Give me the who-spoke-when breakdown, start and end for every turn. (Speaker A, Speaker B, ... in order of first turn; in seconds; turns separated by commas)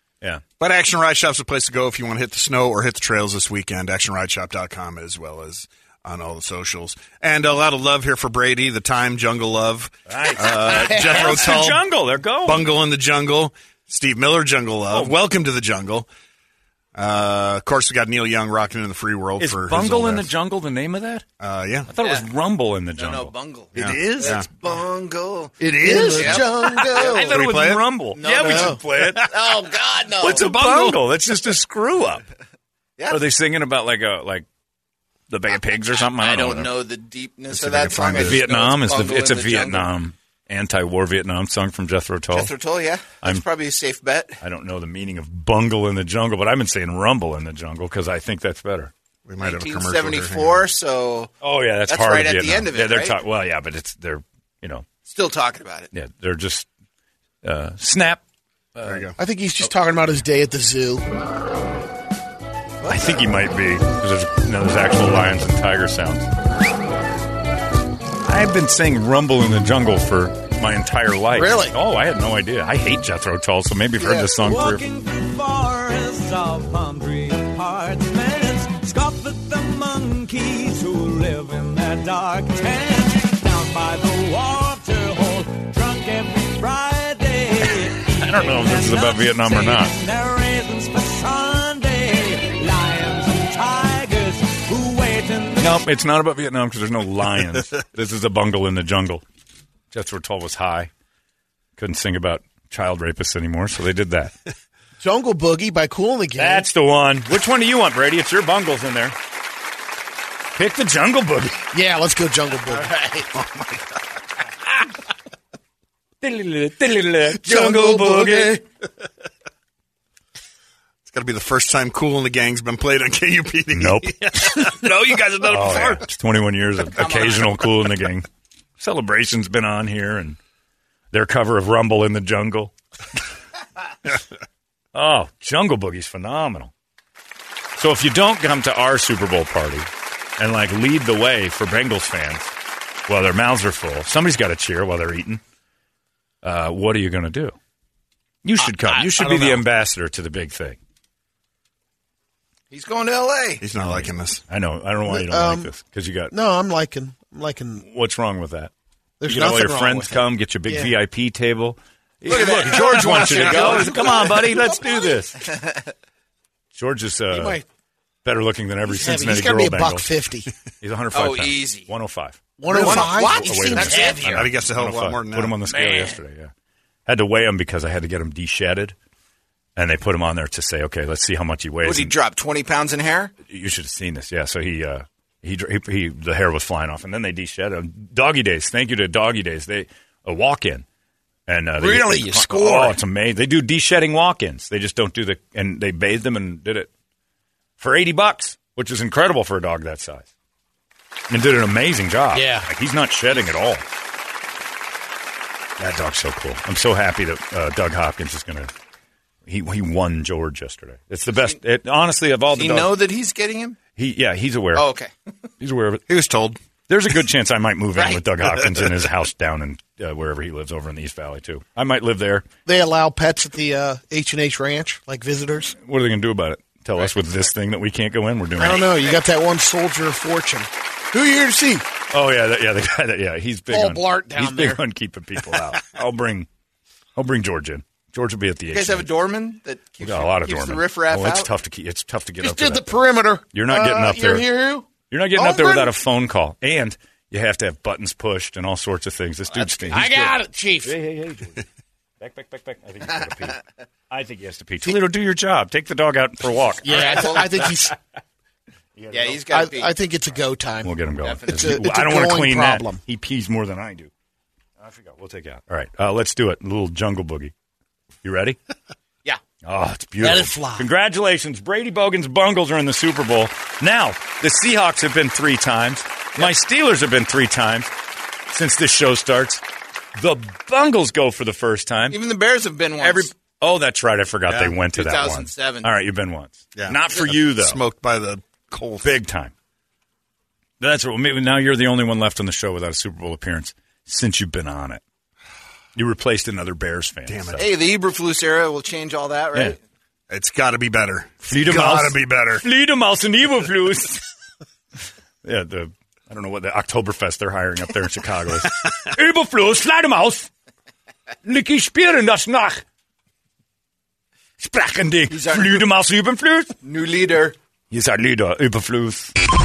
Speaker A: 0.6-11.8, Speaker B: 10.1-12.7, Speaker A: 12.4-16.1, Speaker B: 14.9-15.2, Speaker A: 16.9-20.3, Speaker B: 19.4-21.2, Speaker A: 21.4-21.9, Speaker B: 21.9-24.4, Speaker C: 22.0-22.2, Speaker C: 22.9-27.2, Speaker A: 23.7-24.5, Speaker A: 25.6-26.4, Speaker D: 25.7-27.3, Speaker B: 25.9-26.4, Speaker B: 26.9-29.3, Speaker A: 27.3-27.9, Speaker C: 28.1-30.6, Speaker D: 28.4-28.8, Speaker A: 29.0-29.3, Speaker B: 30.2-32.2, Speaker A: 30.5-30.9, Speaker B: 33.1-34.5, Speaker B: 35.3-36.7, Speaker C: 36.0-39.9, Speaker A: 37.5-38.5, Speaker B: 38.1-42.5, Speaker C: 42.3-44.4, Speaker B: 44.4-48.9, Speaker A: 49.3-50.6, Speaker C: 49.4-51.3, Speaker B: 51.4-54.9, Speaker C: 51.9-53.2, Speaker C: 55.0-55.9, Speaker B: 55.9-56.7, Speaker B: 57.4-58.2, Speaker B: 58.7-59.1, Speaker A: 58.8-59.1, Speaker D: 59.2-61.0, Speaker D: 62.8-63.1, Speaker B: 62.8-66.3, Speaker B: 68.2-74.8, Speaker D: 71.3-71.8, Speaker D: 74.0-74.3, Speaker E: 74.4-95.9, Speaker B: 88.1-89.9, Speaker B: 95.6-99.2, Speaker B: 99.9-100.9, Speaker B: 101.8-104.3, Speaker D: 105.0-106.7, Speaker B: 106.3-109.1, Speaker B: 110.5-111.6, Speaker D: 111.7-113.2, Speaker B: 116.2-118.6, Speaker D: 117.3-118.6, Speaker A: 121.0-126.0, Speaker B: 123.7-124.8, Speaker B: 125.4-128.3, Speaker C: 126.9-127.5, Speaker B: 128.8-130.4, Speaker B: 131.1-132.7, Speaker B: 134.9-136.7, Speaker B: 137.8-142.5, Speaker B: 143.1-145.4, Speaker B: 146.4-147.6, Speaker B: 148.4-150.8, Speaker C: 148.6-149.6, Speaker C: 152.7-153.6, Speaker A: 153.6-154.4, Speaker B: 153.8-156.3, Speaker D: 155.1-155.7, Speaker D: 156.3-157.8, Speaker B: 157.8-158.7, Speaker D: 159.2-160.9, Speaker B: 159.2-165.4, Speaker C: 162.3-165.9, Speaker D: 162.3-164.4, Speaker B: 166.7-167.6, Speaker D: 167.3-167.6, Speaker B: 168.2-170.1, Speaker D: 168.8-170.5, Speaker B: 170.8-176.5, Speaker C: 171.1-171.9, Speaker D: 172.6-174.5, Speaker C: 172.7-174.5, Speaker A: 174.2-175.6, Speaker C: 175.6-176.1, Speaker B: 177.1-178.9, Speaker B: 179.8-182.2, Speaker C: 181.8-183.3, Speaker B: 183.5-190.8, Speaker B: 191.5-196.9, Speaker D: 191.8-192.9, Speaker B: 197.8-200.3, Speaker B: 201.3-203.8, Speaker D: 202.3-202.7, Speaker B: 205.8-208.7, Speaker B: 209.4-212.9, Speaker C: 212.5-213.8, Speaker B: 213.9-214.9, Speaker C: 214.7-215.1, Speaker B: 215.6-216.0, Speaker A: 216.1-216.6, Speaker B: 216.9-222.4, Speaker D: 222.7-225.7, Speaker B: 225.8-228.9, Speaker D: 228.6-231.8, Speaker B: 232.1-236.5, Speaker D: 233.7-234.8, Speaker B: 237.2-239.1, Speaker C: 238.7-241.5, Speaker B: 240.0-243.0, Speaker D: 242.4-245.9, Speaker B: 243.5-244.5, Speaker B: 245.1-251.7, Speaker D: 249.9-250.9, Speaker B: 252.2-257.9, Speaker D: 256.8-257.9, Speaker C: 256.9-257.6, Speaker B: 259.0-259.4, Speaker C: 259.1-259.9, Speaker D: 259.5-260.9, Speaker B: 260.8-264.1, Speaker C: 261.2-261.7, Speaker D: 261.5-263.0, Speaker B: 264.8-267.5, Speaker B: 268.2-268.6, Speaker B: 269.6-277.9, Speaker D: 270.2-270.9, Speaker B: 278.5-279.6, Speaker B: 280.1-282.2, Speaker C: 282.1-283.3, Speaker B: 283.0-287.8, Speaker A: 284.5-284.8, Speaker C: 284.9-285.9, Speaker A: 286.7-289.2, Speaker B: 289.0-289.5, Speaker B: 290.8-295.0, Speaker B: 295.9-297.7, Speaker A: 297.3-297.7, Speaker C: 297.6-299.8, Speaker A: 300.3-302.6, Speaker B: 301.4-304.3, Speaker B: 305.4-310.5, Speaker B: 311.4-312.8, Speaker B: 314.6-316.8, Speaker C: 315.3-315.9, Speaker C: 316.8-317.6, Speaker B: 317.9-319.3